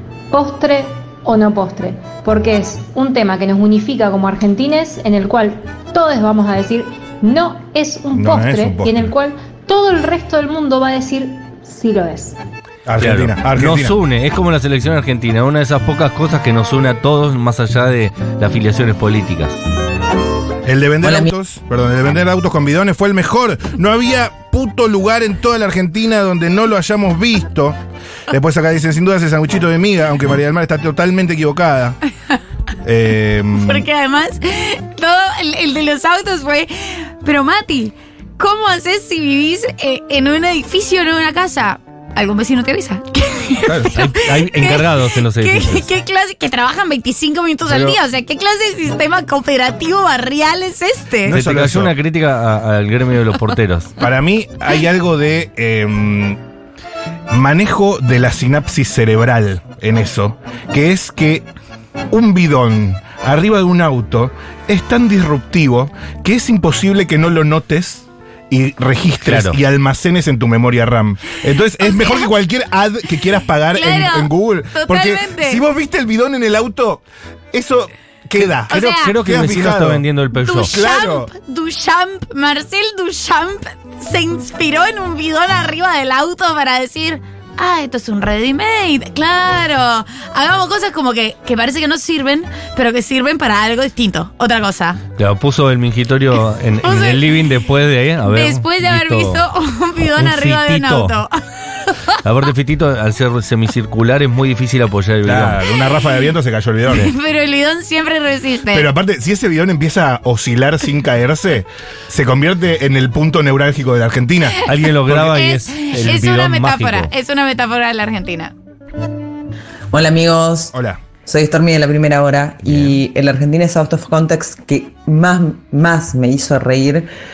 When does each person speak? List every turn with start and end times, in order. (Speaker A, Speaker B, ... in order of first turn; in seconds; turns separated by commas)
Speaker A: 0.3-12.4, Speaker B: 8.1-9.1, Speaker B: 12.8-13.9, Speaker C: 13.0-19.6, Speaker B: 20.6-27.8, Speaker D: 21.0-21.3, Speaker B: 28.3-32.0, Speaker B: 32.8-33.9, Speaker E: 33.6-51.3, Speaker B: 43.6-43.9, Speaker C: 43.9-45.9, Speaker B: 51.2-51.9, Speaker C: 51.3-53.9, Speaker B: 54.0-56.4, Speaker B: 57.3-61.5, Speaker B: 62.1-80.0, Speaker C: 69.2-69.6, Speaker E: 71.8-72.3, Speaker E: 73.7-75.6, Speaker E: 78.7-79.1, Speaker C: 78.7-80.7, Speaker E: 80.4-95.0, Speaker B: 80.6-81.3, Speaker C: 95.2-99.5, Speaker E: 96.8-97.2, Speaker E: 98.3-101.3, Speaker C: 100.1-101.2, Speaker E: 101.8-102.2, Speaker C: 102.2-105.6, Speaker B: 105.2-107.1, Speaker E: 106.9-108.9, Speaker B: 108.7-115.4, Speaker C: 114.6-117.1, Speaker E: 115.1-118.5, Speaker D: 119.9-120.7, Speaker B: 120.7-121.0, Speaker D: 121.2-127.1, Speaker B: 122.7-122.9